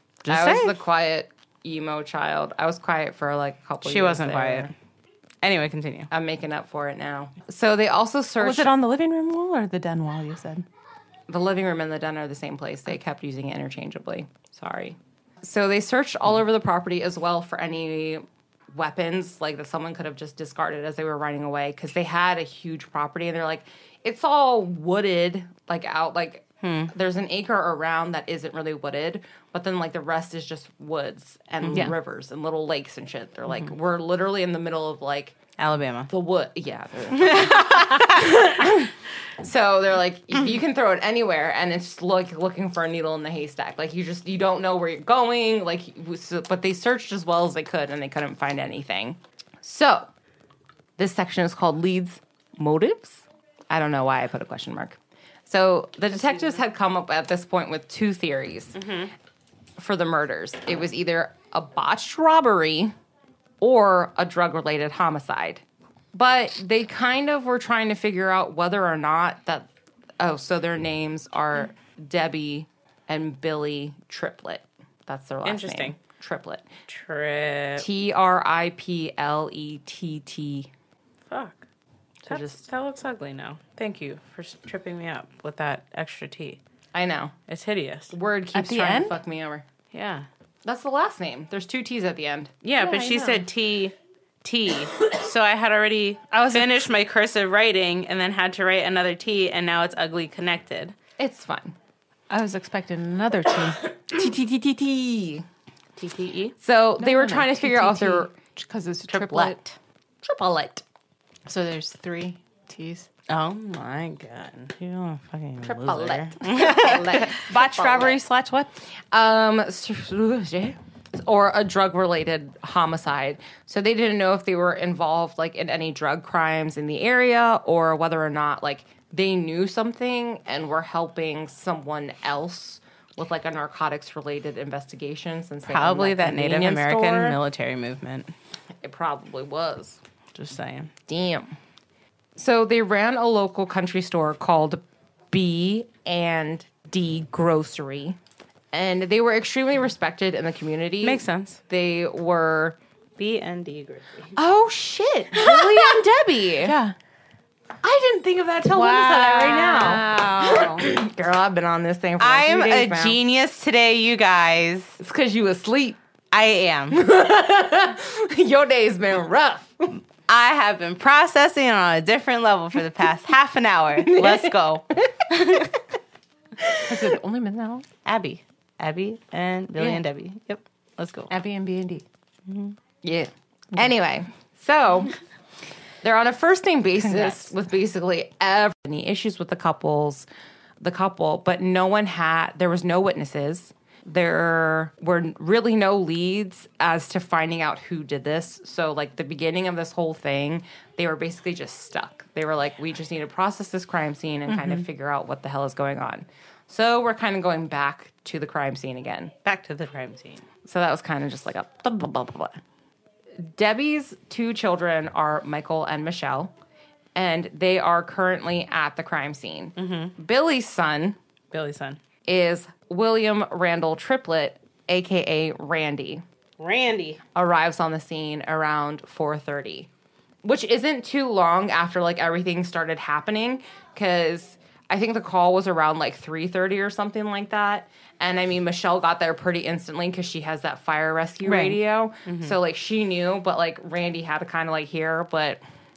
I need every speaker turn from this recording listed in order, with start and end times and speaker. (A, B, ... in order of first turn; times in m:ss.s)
0:00.2-0:00.8 A
0:00.2-0:04.7 B
0:03.8-0:04.7 A
0:05.4-0:06.1 A
0:06.1-0:08.7 B
0:08.4-0:10.6 C
0:11.3-0:35.4 B
0:26.6-0:26.9 A
0:31.6-0:31.9 A
0:35.6-0:36.1 A
0:36.1-0:50.1 B
0:37.1-0:38.4 A
0:51.0-0:58.8 B
0:56.3-0:56.5 A
0:58.7-0:59.1 A
0:59.8-1:02.9 B
1:03.6-1:05.6 B
1:06.1-1:09.7 B
1:10.2-1:16.7 B
1:15.4-1:16.0 A
1:16.9-1:17.8 A
1:17.8-1:20.7 B
1:21.3-1:21.6 A
1:22.2-1:22.6 B
1:22.2-1:26.6 A
1:26.9-1:27.3 B
1:27.5-1:28.1 A
1:28.1-1:29.6 B
1:28.5-1:29.2 C
1:29.9-1:30.3 A
1:30.6-1:32.5 B
1:32.6-1:40.9 A
1:32.8-1:33.5 C
1:36.3-1:36.9 C
1:41.2-1:41.7 B
1:42.3-1:43.9 C
1:44.1-1:45.4 B
1:46.0-1:46.5 A
1:46.5-1:48.3 B
1:47.0-1:49.6 C
1:49.1-1:49.8 A
1:50.2-1:50.8 B
1:51.4-1:53.1 C
1:53.3-1:57.4 A
1:55.6-1:58.2 B
1:56.6-1:58.7 C
1:59.1-2:17.4 B
2:15.6-2:18.3 A
2:18.8-2:20.0 B
2:20.3-2:20.9 A
2:21.1-2:21.5 B
2:22.4-2:28.2 B
2:28.7-2:32.8 B
2:31.0-2:31.6 A
2:33.2-2:34.4 A
2:34.3-2:36.8 B
2:35.3-2:36.0 C
2:36.6-2:36.9 C
2:37.8-2:43.2 B
2:38.7-2:40.8 C
2:42.2-2:45.0 A
2:45.0-2:46.0 B
2:46.3-2:47.0 A
2:46.9-2:50.0 B
2:50.3-2:55.8 A
2:54.1-2:54.5 B
2:56.6-2:57.1 B
2:56.8-2:57.8 C
2:58.0-3:01.3 A
2:59.8-3:00.0 C
3:01.3-3:02.0 C
3:02.4-3:02.8 A
3:03.0-3:05.1 B
3:06.0-3:10.3 B
3:07.0-3:07.5 C
3:10.8-3:29.3 B
3:29.4-3:30.4 A
3:30.6-3:32.6 B
3:33.4-3:36.5 B
3:37.1-3:41.2 B
3:39.8-3:40.1 A
3:41.5-3:42.0 A
3:42.2-3:46.2 B
3:46.6-3:47.2 A
3:47.3-3:49.9 B
3:50.4-4:05.6 B
4:01.5-4:01.7 C
4:02.2-4:02.6 A